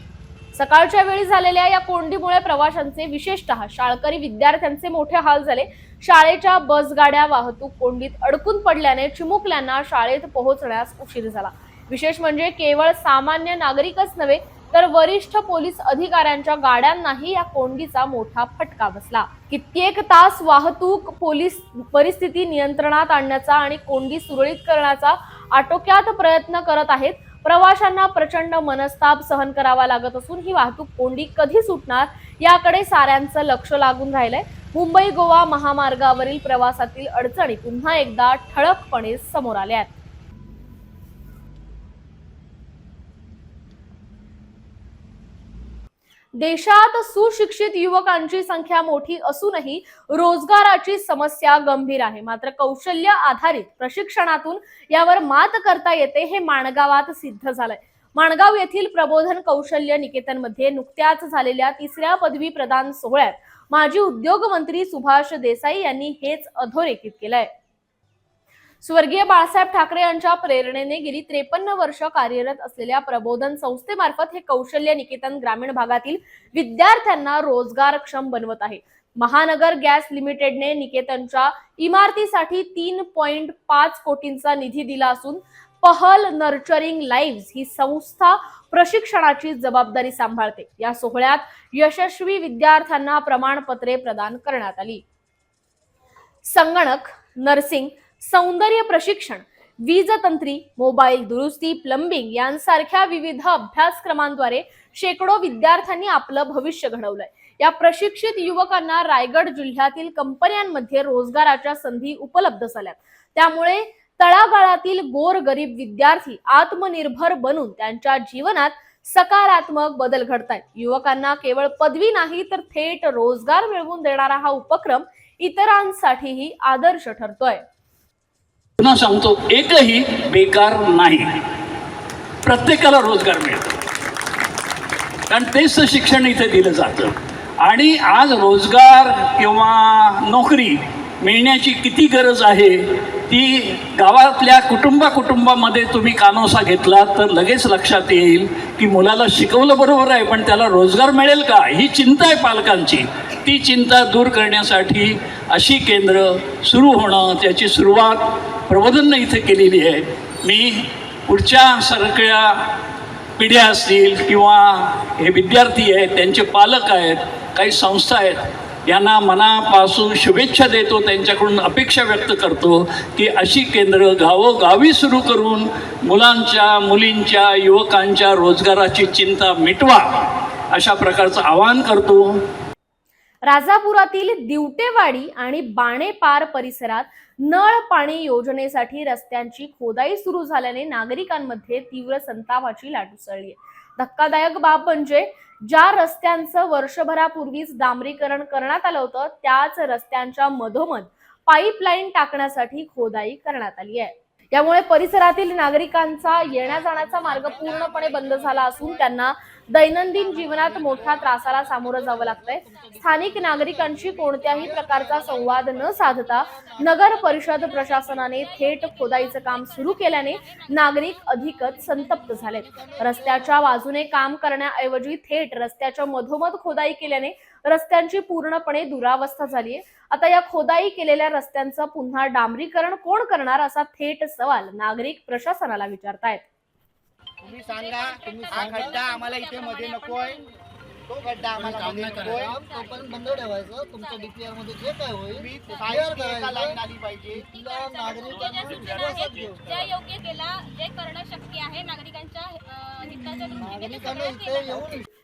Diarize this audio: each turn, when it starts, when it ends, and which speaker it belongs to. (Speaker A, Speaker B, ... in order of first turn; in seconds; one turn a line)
Speaker A: 0.5-39.9
Speaker A: 46.4-67.5
Speaker A: 68.8-95.0
Speaker A: 96.4-127.6
Speaker B: 128.8-131.3
Speaker B: 132.4-133.8
Speaker B: 135.3-162.6
Speaker B: 163.4-182.3
Speaker A: 183.4-236.4
Speaker C: 237.5-240.4
Speaker D: 238.2-238.8
Speaker B: 238.2-239.7
Speaker E: 238.3-238.6
Speaker E: 239.4-240.3
Speaker C: 241.1-242.5
Speaker D: 241.5-249.7
Speaker E: 242.9-243.4
Speaker E: 243.9-244.2
Speaker C: 245.4-247.4
Speaker E: 247.5-254.8
Speaker B: 247.8-249.2
Speaker D: 253.5-255.0